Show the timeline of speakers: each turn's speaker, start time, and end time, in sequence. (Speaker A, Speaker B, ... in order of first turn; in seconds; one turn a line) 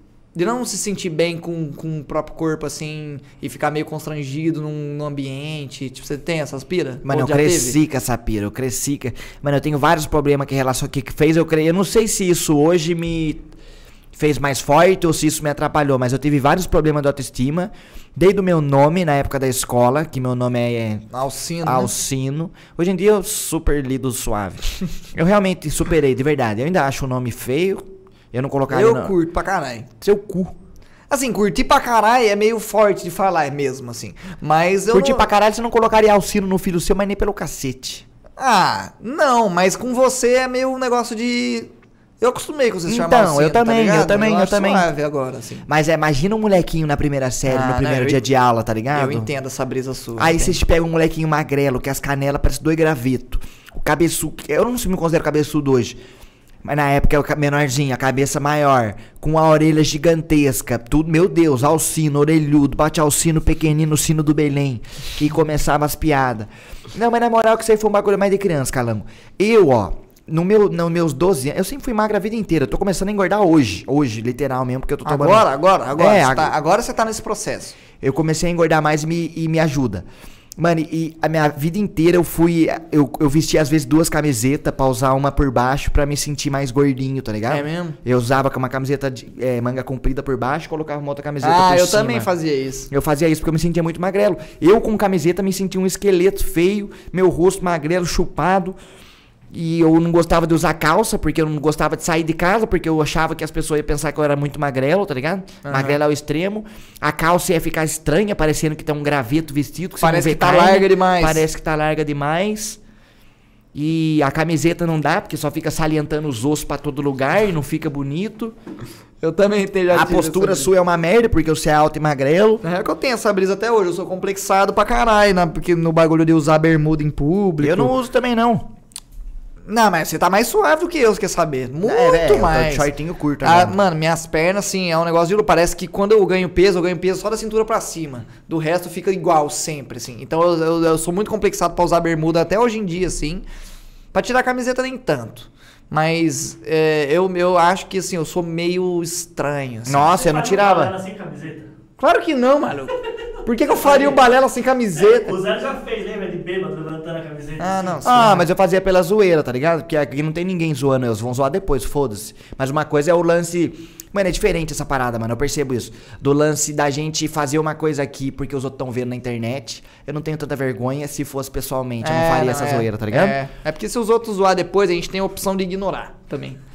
Speaker A: 0.3-7.8
Speaker B: 7.0-13.4
Speaker B: 14.1-21.1
Speaker A: 21.1-21.9
Speaker B: 21.6-29.1
Speaker A: 28.7-29.9
Speaker B: 30.0-30.5
Speaker A: 31.1-35.3
Speaker B: 34.9-38.0
Speaker A: 38.4-45.6
Speaker B: 42.9-44.9
Speaker B: 45.6-49.3
Speaker A: 47.5-48.2
Speaker A: 48.9-50.6
Speaker B: 50.2-56.0
Speaker B: 56.6-76.5
Speaker A: 75.0-77.7
Speaker B: 78.0-80.0
Speaker B: 80.6-92.3
Speaker A: 87.5-88.0
Speaker A: 91.4-92.9
Speaker B: 92.9-98.8
Speaker B: 99.5-112.8
Speaker A: 105.6-106.0
Speaker A: 110.0-111.4
Speaker B: 113.7-118.5
Speaker A: 119.2-120.7
Speaker B: 119.9-122.6
Speaker A: 122.6-127.9
Speaker B: 127.6-128.7
Speaker A: 129.7-132.9
Speaker B: 131.8-133.8
Speaker A: 133.4-143.4
Speaker A: 144.1-150.1
Speaker B: 149.8-150.9
Speaker C: 150.1-151.7
Speaker A: 152.0-152.9
Speaker A: 153.4-155.4
Speaker C: 153.8-154.2
Speaker C: 155.1-158.0
Speaker A: 157.6-158.4
Speaker B: 158.0-173.4
Speaker A: 172.0-176.6